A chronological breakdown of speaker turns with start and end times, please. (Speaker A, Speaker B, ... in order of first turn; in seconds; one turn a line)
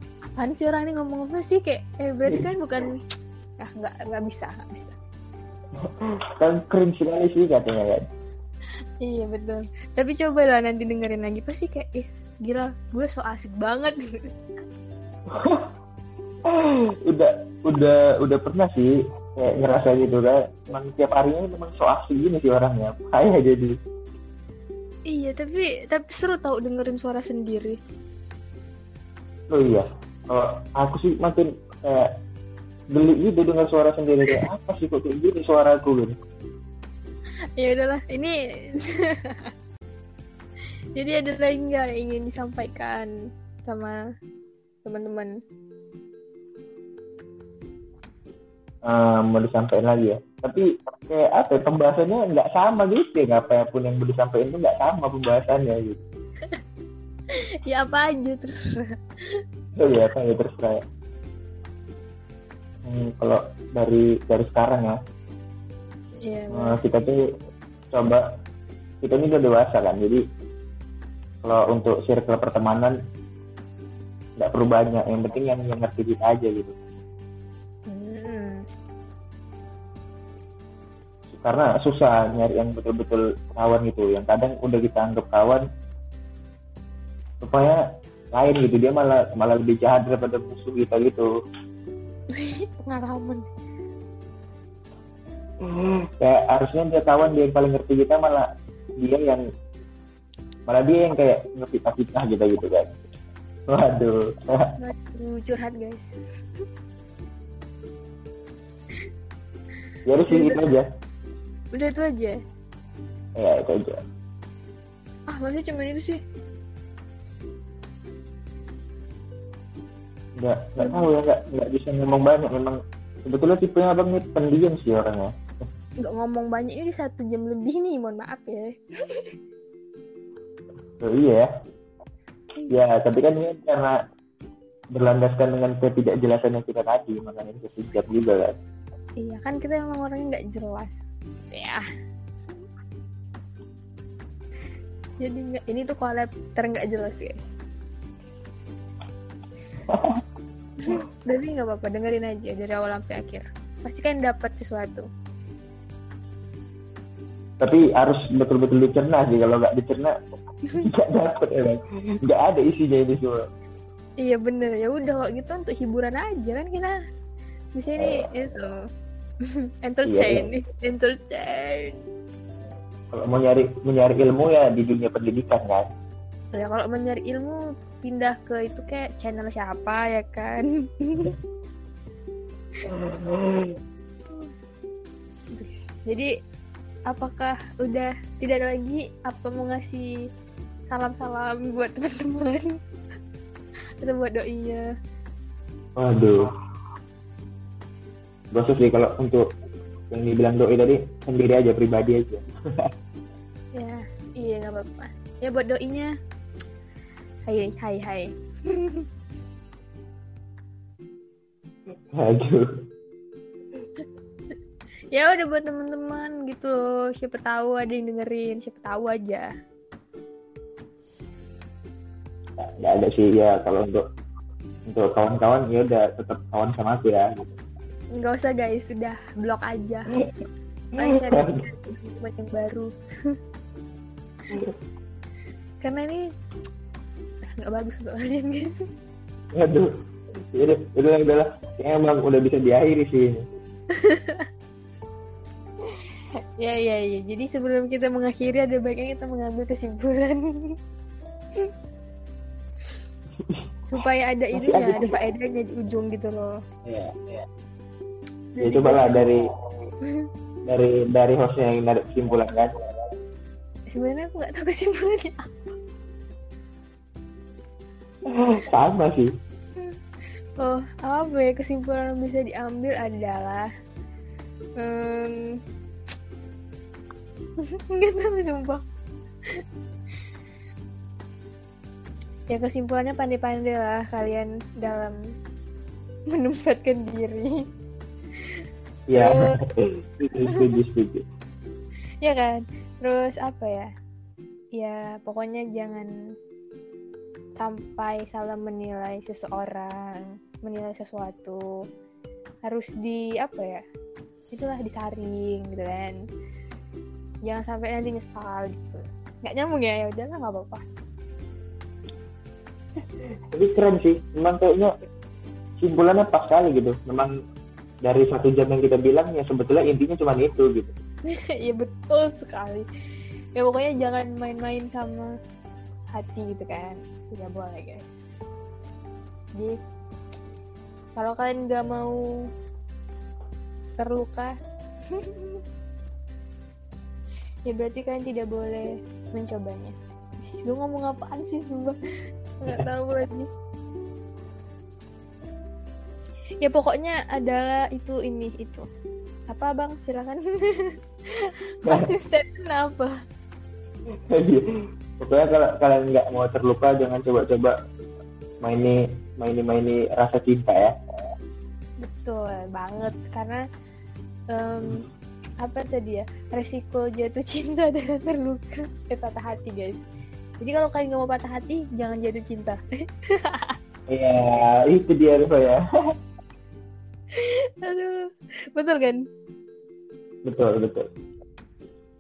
Speaker A: 0.3-2.9
Speaker A: 3.6-5.0
Speaker B: 5.8-8.1
Speaker A: 9.0-14.2
Speaker B: 15.3-15.7
Speaker B: 16.5-23.8
Speaker A: 25.1-27.8
Speaker B: 29.5-32.1
Speaker B: 32.9-36.2
Speaker A: 37.6-39.5
Speaker A: 41.0-43.1
Speaker A: 43.6-44.0
Speaker A: 44.9-45.3
Speaker B: 48.9-56.0
Speaker A: 57.4-59.4
Speaker B: 59.8-60.8
Speaker B: 62.9-65.0
Speaker A: 66.2-66.8
Speaker B: 66.5-67.2
Speaker B: 67.9-68.2
Speaker B: 69.0-70.2
Speaker B: 71.4-73.0
Speaker B: 74.4-76.8
Speaker A: 77.9-78.7
Speaker B: 81.3-85.6
Speaker B: 87.4-87.8
Speaker B: 88.3-91.3
Speaker A: 92.3-93.5
Speaker B: 95.6-99.4
Speaker B: 100.7-102.9
Speaker B: 103.7-104.7
Speaker A: 104.8-106.2
Speaker B: 110.1-110.9
Speaker A: 110.3-110.6
Speaker A: 111.7-112.4
Speaker B: 113.4-114.0
Speaker A: 115.3-116.2
Speaker B: 120.4-125.3
Speaker A: 126.0-129.3
Speaker B: 131.0-131.5
Speaker B: 132.7-134.0
Speaker B: 134.9-138.6
Speaker A: 139.2-141.8
Speaker A: 145.2-147.6
Speaker B: 149.9-150.2
Speaker A: 150.8-155.1
Speaker B: 157.6-160.1
Speaker B: 160.8-163.4
Speaker A: 164.2-166.9
Speaker A: 167.8-168.7
Speaker B: 168.0-168.2
Speaker A: 169.8-172.0
Speaker B: 170.1-170.5
Speaker B: 173.1-175.9
Speaker A: 176.6-181.3
Speaker B: 182.9-183.8
Speaker A: 185.5-186.3
Speaker A: 187.1-190.1
Speaker A: 190.9-192.7
Speaker A: 194.0-194.8
Speaker B: 196.0-196.5
Speaker B: 198.5-199.5
Speaker B: 200.1-202.9
Speaker A: 203.8-206.1
Speaker A: 207.5-209.0
Speaker B: 212.2-212.7
Speaker A: 215.1-219.5
Speaker B: 222.6-224.0
Speaker B: 224.9-227.6
Speaker A: 228.1-230.1
Speaker A: 231.0-233.3
Speaker B: 231.1-231.6
Speaker A: 235.8-236.2
Speaker A: 237.6-238.8
Speaker B: 239.6-239.9
Speaker B: 240.5-243.5
Speaker A: 243.9-244.5
Speaker A: 246.6-250.8
Speaker A: 253.9-256.5
Speaker B: 254.5-255.2
Speaker B: 256.9-257.3
Speaker A: 258.6-259.3
Speaker B: 258.6-259.4
Speaker B: 260.7-262.7
Speaker A: 263.9-265.8
Speaker B: 268.3-269.3
Speaker A: 270.6-273.7
Speaker A: 274.8-275.6
Speaker A: 277.6-278.8
Speaker A: 282.5-285.2
Speaker A: 286.3-287.5
Speaker B: 289.1-291.2
Speaker A: 289.1-289.5
Speaker A: 292.2-293.9
Speaker A: 294.8-296.1
Speaker A: 297.6-301.6
Speaker A: 302.6-303.8
Speaker A: 304.5-306.2
Speaker A: 307.4-310.9
Speaker B: 313.5-314.9
Speaker B: 315.8-317.3
Speaker B: 318.0-321.0
Speaker A: 321.3-322.9
Speaker A: 323.6-325.3
Speaker A: 326.1-328.3
Speaker A: 331.2-332.2
Speaker A: 334.0-334.6
Speaker A: 335.1-335.6
Speaker A: 337.7-342.0
Speaker A: 342.6-343.5
Speaker A: 346.6-348.9
Speaker A: 349.5-353.1
Speaker B: 354.3-354.6
Speaker B: 355.2-357.7
Speaker B: 358.6-360.9
Speaker A: 362.0-363.6
Speaker A: 364.5-365.1
Speaker A: 365.6-370.1
Speaker A: 370.6-373.8
Speaker B: 374.1-375.8
Speaker A: 377.4-379.2
Speaker B: 380.4-381.1